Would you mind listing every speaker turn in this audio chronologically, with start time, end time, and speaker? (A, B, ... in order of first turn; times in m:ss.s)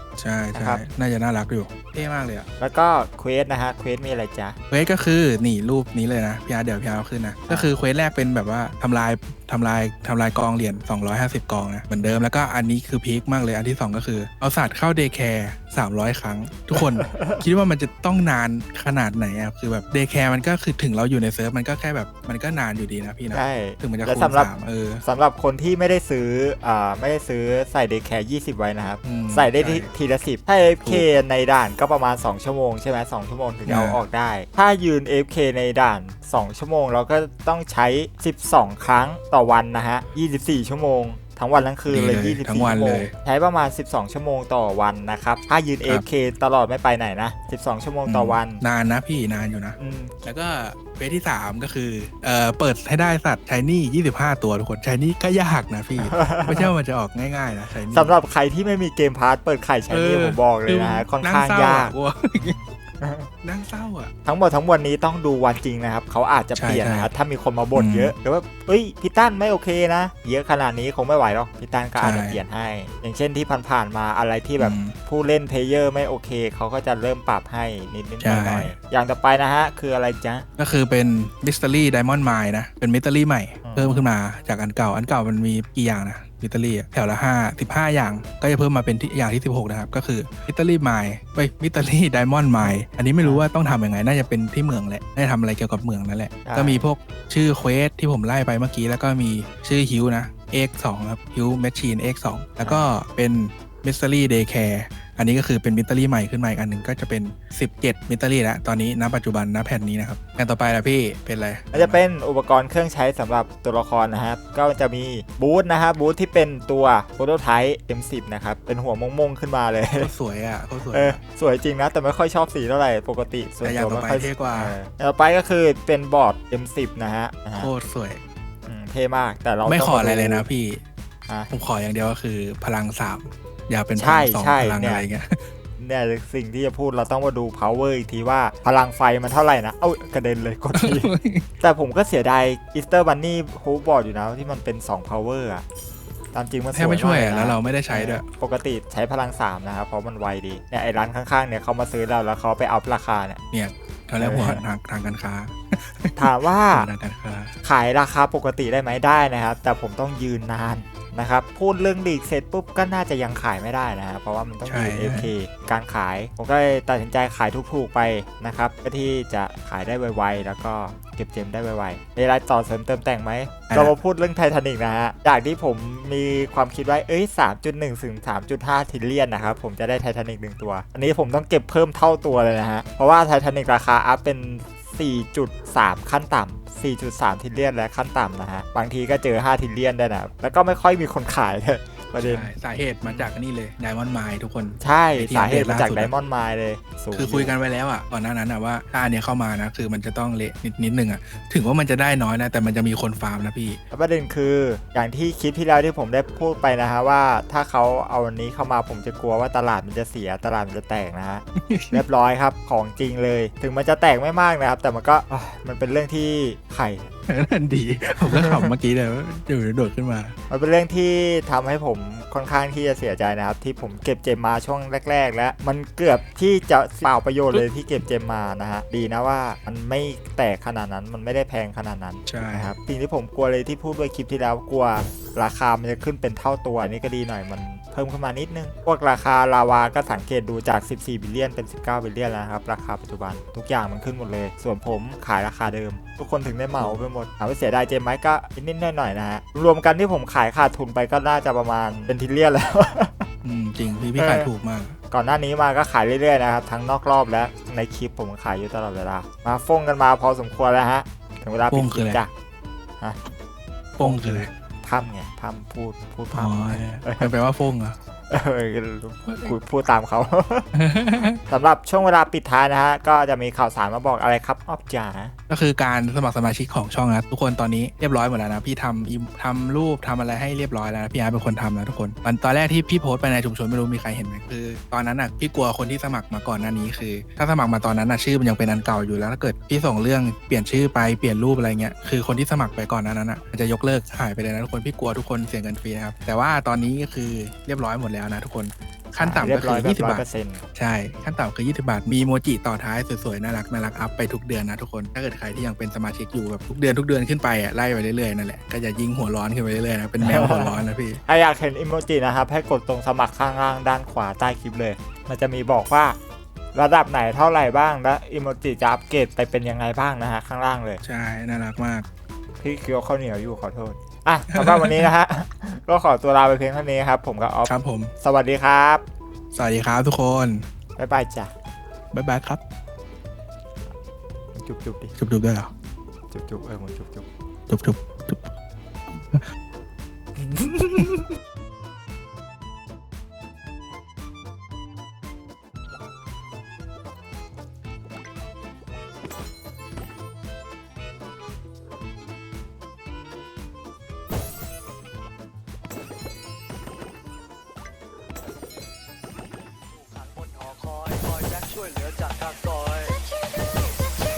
0:00.2-0:02.5 A
0:00.5-0:00.8 B
0:02.6-0:04.6 B
0:04.7-0:25.0 A
0:07.5-0:07.7 B
0:16.7-0:17.4 B
0:23.3-0:24.5 B
0:25.0-0:48.6 B
0:29.0-0:29.9 A
0:30.8-0:31.1 A
0:33.7-0:34.0 A
0:41.9-0:43.1 A
0:48.1-0:58.1 A
0:49.8-0:50.2 B
0:56.0-0:56.7 B
0:57.9-1:03.3 B
0:59.9-1:02.6 A
1:03.4-1:04.1 A
1:04.2-1:20.5 B
1:06.6-1:07.1 A
1:07.7-1:08.1 A
1:12.0-1:12.4 A
1:14.6-1:14.9 A
1:18.2-1:18.7 A
1:20.6-1:52.0 A
1:23.6-1:24.1 B
1:32.6-1:33.5 B
1:36.4-1:36.9 B
1:42.6-1:42.9 B
1:51.7-2:00.1 B
2:00.0-2:01.2 A
2:00.9-2:07.7 B
2:03.6-2:04.8 A
2:07.6-2:08.2 A
2:08.6-2:10.4 B
2:09.6-2:10.8 A
2:11.5-2:15.4 A
2:14.0-2:15.0 B
2:15.8-2:21.1 B
2:20.8-2:21.4 A
2:21.6-2:25.6 B
2:26.3-2:33.4 B
2:26.7-2:28.2 A
2:33.5-2:37.5 A
2:34.2-2:34.6 B
2:36.2-2:36.9 B
2:37.6-3:12.5 B
2:44.6-2:45.3 A
2:53.7-2:53.9 A
3:12.2-3:16.1 A
3:13.0-3:13.3 B
3:14.8-3:17.5 B
3:17.1-3:23.8 A
3:23.9-3:37.1 B
3:31.6-3:32.0 A
3:37.3-3:40.3 A
3:38.2-3:38.7 B
3:40.5-4:13.3 B
3:52.3-3:52.7 A
4:13.4-4:15.0 A
4:14.2-4:14.5 B
4:15.1-4:22.3 B
4:21.7-4:22.2 A
4:23.0-4:23.3 B
4:24.0-4:27.3 B
4:24.0-4:24.5 A
4:26.3-4:28.0 A
4:28.3-4:30.7 B
4:29.3-4:29.5 A
4:30.7-4:31.4 A
4:31.2-4:35.3 B
4:35.5-5:11.2 A
4:59.2-5:00.6 B
5:10.2-5:16.2 B
5:16.7-5:21.0 B
5:21.0-5:22.0 A
5:22.6-5:29.0 B
5:24.5-5:25.1 A
5:27.6-5:28.1 A
5:29.5-5:30.6 A
5:31.0-5:31.5 B
5:32.1-5:32.6 A
5:34.5-5:35.1 B
5:35.2-5:35.7 A
5:36.3-5:37.2 B
5:37.7-5:38.5 A
5:40.8-5:41.2 A
6:00.4-6:03.1 C